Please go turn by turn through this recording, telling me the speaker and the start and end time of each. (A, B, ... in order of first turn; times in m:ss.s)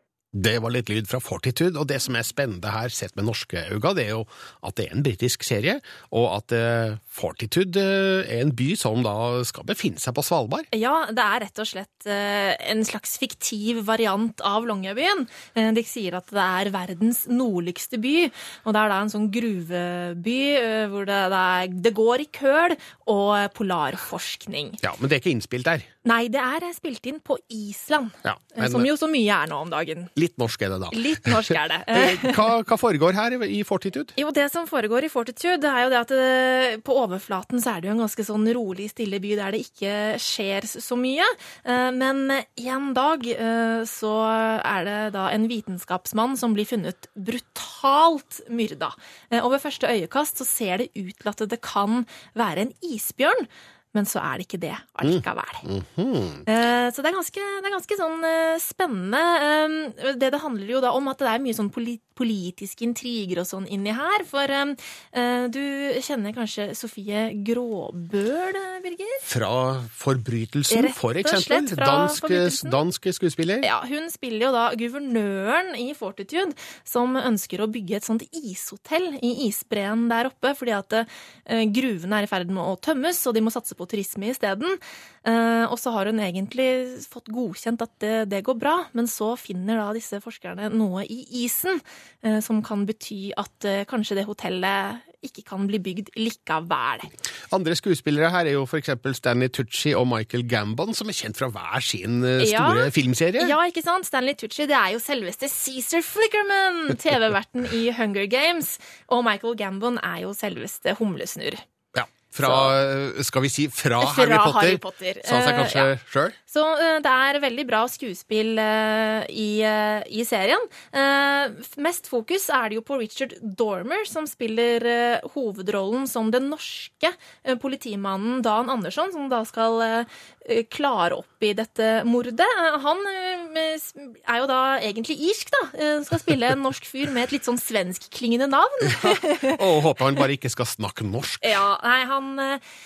0:00.3-0:10.7 A
0:10.7-0:24.8 B
0:24.8-0:25.9 A
0:26.0-0:30.1 B
0:28.2-0:28.9 A
0:30.2-0:34.1 A
0:30.9-0:32.5 B
0:34.2-0:55.6 B
0:55.0-0:56.4 A
0:56.5-1:09.3 B
1:09.3-1:13.7 A
1:10.7-1:12.8 B
1:13.6-1:37.1 B
1:37.5-1:43.6 A
1:42.4-1:51.6 B
1:51.9-1:56.4 A
1:52.4-1:52.7 B
1:54.0-1:55.9 B
1:56.5-2:19.6 B
2:19.0-2:21.6 A
2:21.4-2:22.6 B